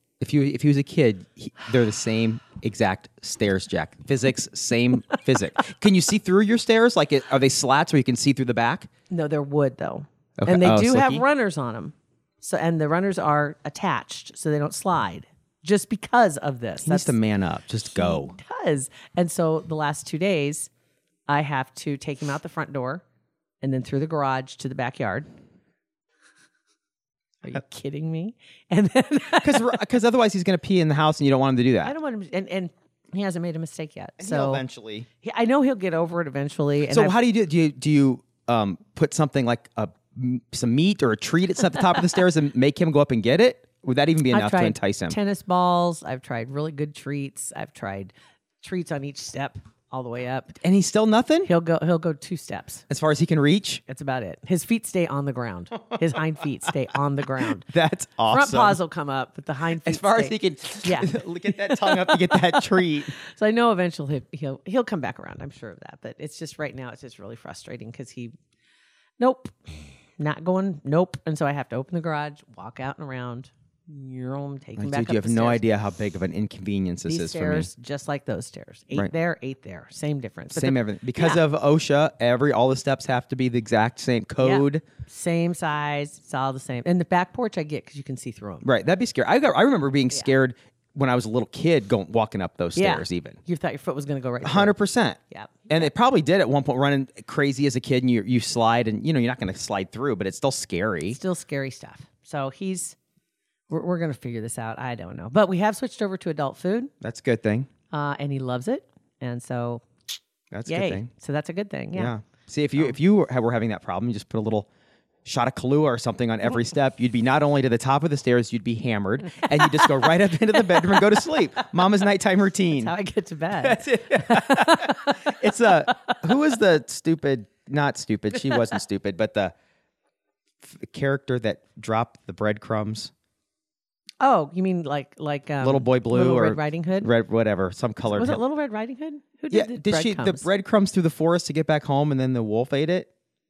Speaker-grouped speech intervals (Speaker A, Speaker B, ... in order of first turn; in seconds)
Speaker A: 0.2-8.9, 10.4-11.2, 16.8-18.4, 29.4-31.9, 34.2-35.1, 36.9-45.2, 50.6-51.5, 52.9-53.8, 57.6-58.8, 59.8-63.1, 74.8-77.7, 80.5-84.8, 88.6-93.4, 94.4-101.2, 107.0-107.7, 110.5-111.1, 111.9-114.7, 115.2-122.9, 123.6-129.5, 130.6-133.1, 135.6-138.4, 139.5-143.1
Speaker B: 9.1-17.2, 17.9-20.7, 21.3-23.0, 23.6-25.3, 27.4-29.8, 31.8-34.6, 35.2-37.1, 44.3-50.5, 51.5-52.8, 53.9-57.7, 58.3-68.3, 69.2-75.6, 77.1-81.4, 84.4-88.7, 92.7-94.8, 95.3-95.9, 101.1-103.0, 103.7-106.9, 107.9-109.8, 110.7-112.1, 119.3-120.1, 120.7-121.2, 122.7-126.2, 134.2-137.1, 138.1-140.5